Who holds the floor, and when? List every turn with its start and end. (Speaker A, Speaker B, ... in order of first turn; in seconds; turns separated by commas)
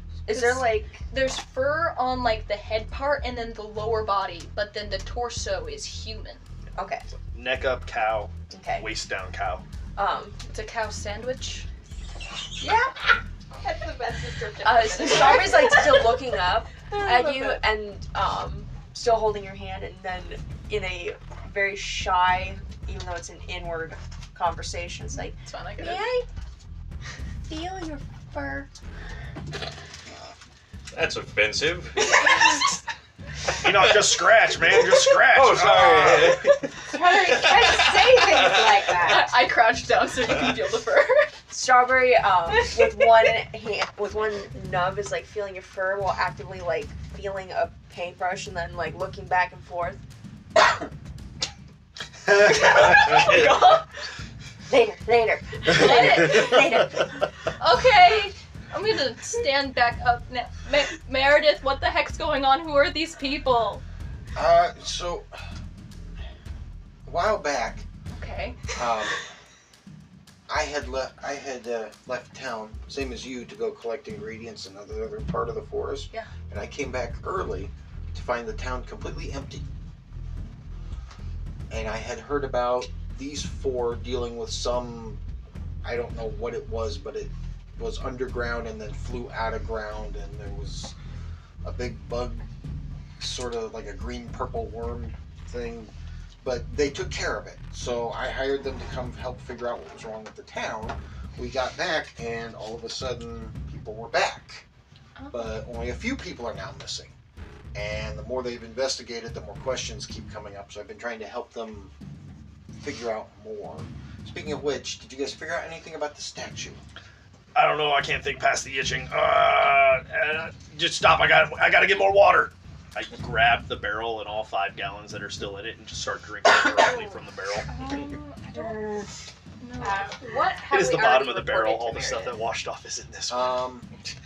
Speaker A: 0.3-1.0, Speaker B: 0.3-6.4, Speaker A: 6.8-7.0, Speaker C: 7.3-9.6, Speaker A: 8.5-8.9, Speaker A: 10.0-10.4, Speaker B: 10.4-11.7, Speaker A: 12.6-13.0, Speaker D: 13.6-15.9, Speaker A: 14.6-26.2, Speaker B: 14.7-16.1, Speaker D: 16.9-17.6, Speaker B: 25.1-26.1, Speaker A: 27.5-28.7, Speaker E: 30.9-32.1, Speaker B: 32.0-32.7, Speaker C: 33.6-36.5, Speaker E: 35.1-38.9, Speaker D: 36.9-39.3, Speaker B: 38.4-41.3, Speaker A: 41.5-50.0, Speaker B: 52.5-53.8, Speaker C: 52.6-53.2, Speaker A: 52.8-53.7, Speaker A: 54.7-57.2, Speaker B: 55.7-56.8, Speaker B: 57.6-63.8, Speaker F: 64.3-65.3, Speaker F: 67.1-67.8, Speaker B: 68.1-68.8, Speaker F: 68.7-69.2, Speaker F: 70.5-79.7, Speaker F: 81.7-85.2, Speaker F: 85.8-90.9, Speaker F: 91.6-92.5, Speaker F: 93.2-104.7, Speaker B: 105.2-105.6, Speaker F: 105.3-107.1, Speaker F: 107.7-111.9, Speaker F: 112.8-116.8, Speaker C: 117.5-127.7, Speaker B: 127.7-128.9, Speaker D: 128.6-129.1, Speaker B: 129.6-130.3, Speaker D: 129.8-132.4, Speaker C: 130.7-133.6, Speaker F: 133.3-133.9